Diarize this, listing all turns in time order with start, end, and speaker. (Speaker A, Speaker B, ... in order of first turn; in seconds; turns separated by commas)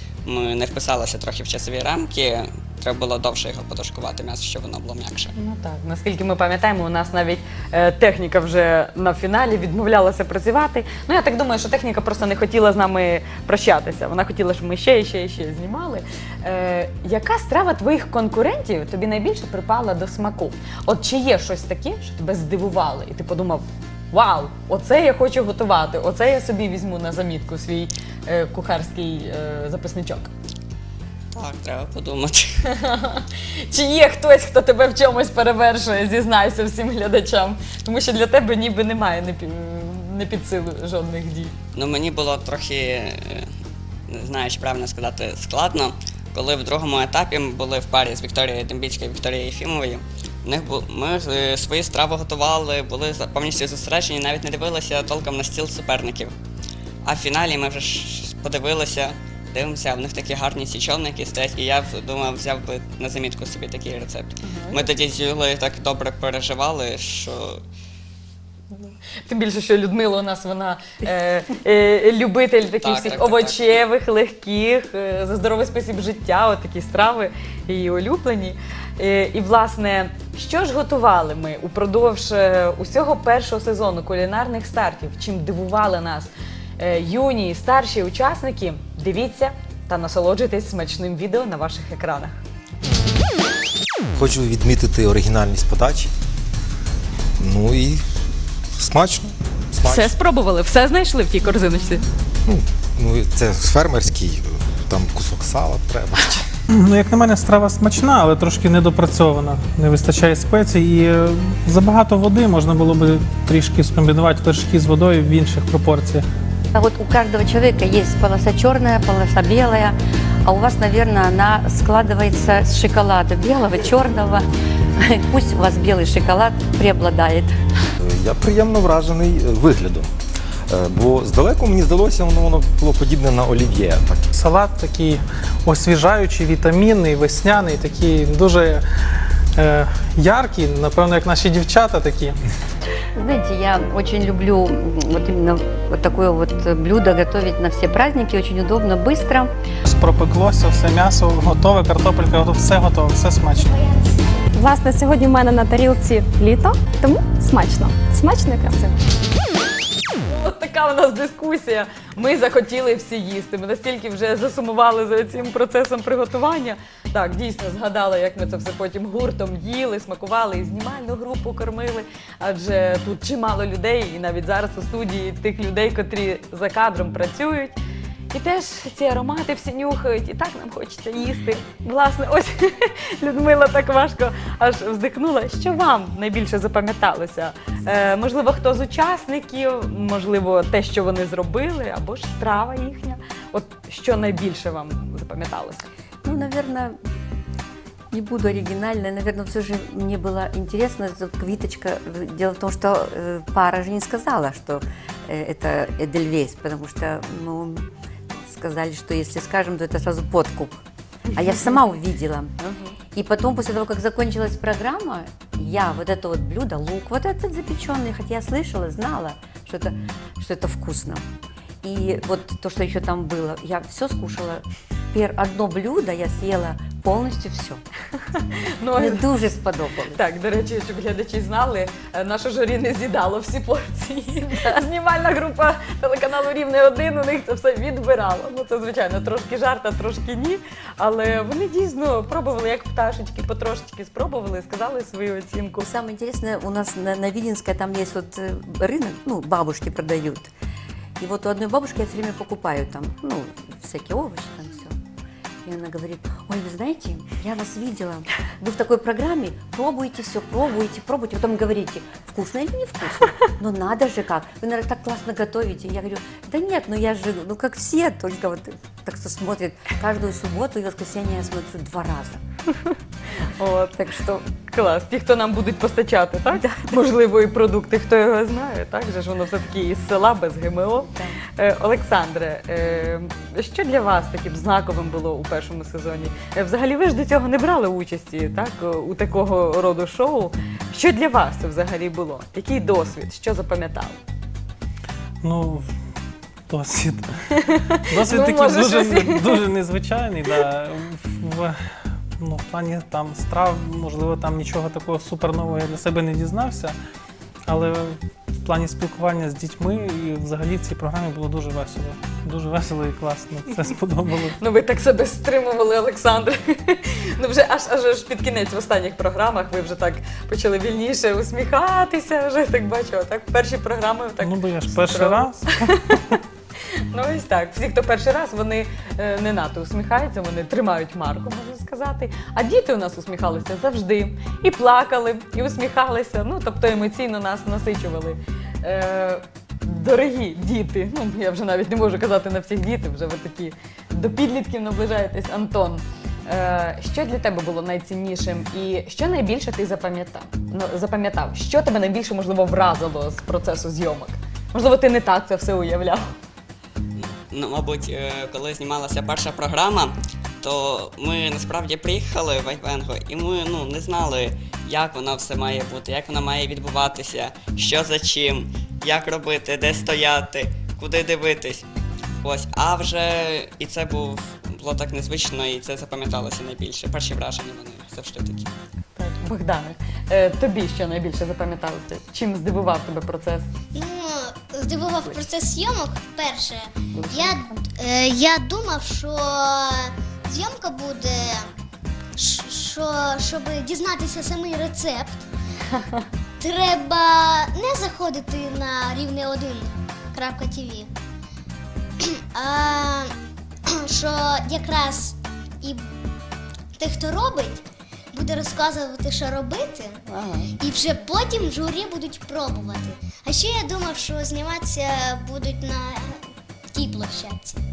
Speaker A: 0.2-5.3, Speaker B: 5.3-30.3, Speaker A: 31.3-32.5, Speaker B: 32.7-41.5, Speaker A: 41.7-43.5, Speaker A: 44.1-56.3, Speaker A: 57.0-67.6, Speaker B: 64.4-64.8, Speaker B: 68.7-92.3, Speaker A: 72.8-73.6, Speaker C: 94.2-96.1, Speaker C: 97.4-98.0, Speaker C: 98.8-100.1, Speaker B: 99.8-102.0, Speaker C: 102.5-106.4, Speaker D: 106.7-116.2, Speaker E: 116.7-124.5, Speaker E: 125.0-127.5, Speaker C: 128.0-130.1, Speaker C: 130.7-134.3, Speaker D: 134.3-138.8, Speaker D: 139.6-142.3, Speaker E: 143.2-149.5, Speaker D: 149.9-153.8, Speaker F: 153.8-154.4, Speaker G: 154.5-158.9, Speaker B: 160.2-177.8, Speaker B: 178.3-195.8, Speaker E: 196.2-197.0, Speaker E: 198.1-207.8, Speaker E: 208.4-212.5, Speaker B: 212.6-212.9, Speaker E: 213.1-221.2, Speaker E: 221.8-227.8, Speaker B: 228.8-229.3, Speaker E: 228.9-230.2, Speaker B: 230.1-245.8, Speaker E: 245.8-250.5, Speaker E: 251.2-254.9, Speaker E: 255.6-272.4, Speaker B: 273.4-294.2, Speaker E: 276.5-277.0, Speaker E: 281.1-281.4, Speaker D: 295.4-295.9, Speaker D: 296.7-301.7, Speaker B: 297.6-299.6, Speaker D: 302.4-306.9, Speaker D: 307.7-314.6, Speaker B: 314.6-326.4, Speaker D: 324.4-326.1, Speaker B: 327.1-356.3, Speaker A: 357.1-371.8, Speaker A: 372.4-378.7, Speaker B: 379.1-383.7, Speaker F: 383.9-391.7, Speaker B: 387.1-387.8, Speaker F: 392.4-395.4, Speaker F: 396.6-401.1, Speaker F: 402.2-403.3, Speaker F: 403.9-406.0, Speaker F: 406.9-410.2, Speaker B: 410.3-410.7, Speaker F: 410.8-416.4, Speaker F: 416.9-417.8